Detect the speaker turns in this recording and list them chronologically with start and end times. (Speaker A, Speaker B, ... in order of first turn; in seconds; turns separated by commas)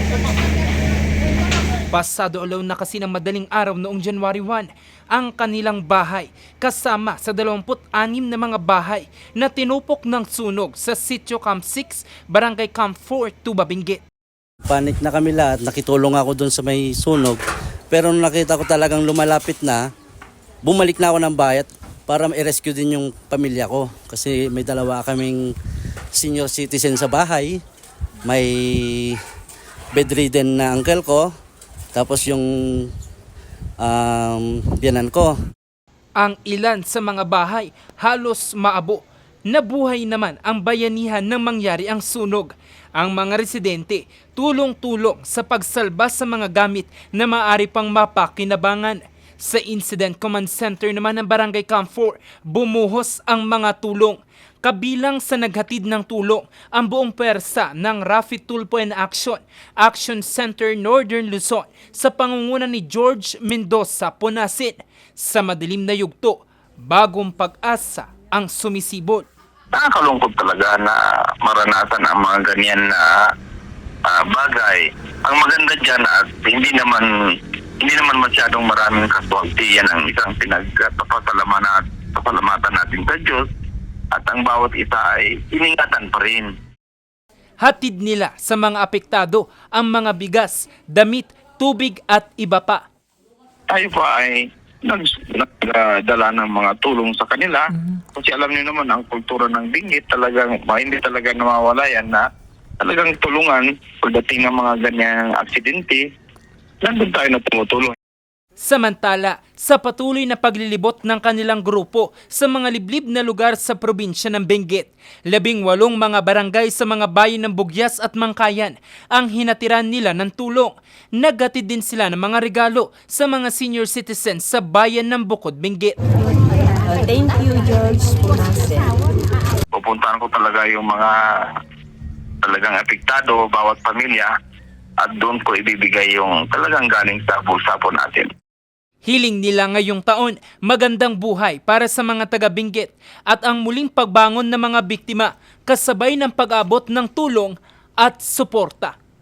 Speaker A: 1.9-14.0, Speaker B: 14.6-19.9, Speaker B: 20.6-25.6, Speaker B: 26.1-27.6, Speaker B: 28.2-29.2, Speaker B: 29.9-31.3, Speaker B: 31.9-32.9, Speaker B: 33.8-35.4, Speaker A: 36.2-69.3, Speaker C: 69.7-73.1, Speaker C: 74.1-77.1, Speaker C: 77.8-83.5, Speaker C: 84.1-86.5, Speaker A: 87.6-92.8, Speaker C: 93.7-102.2, Speaker C: 102.8-106.0, Speaker C: 106.8-108.0, Speaker A: 108.6-126.0, Speaker D: 126.8-128.9, Speaker C: 129.7-131.2, Speaker C: 132.4-134.3, Speaker C: 135.0-138.3, Speaker A: 139.1-149.0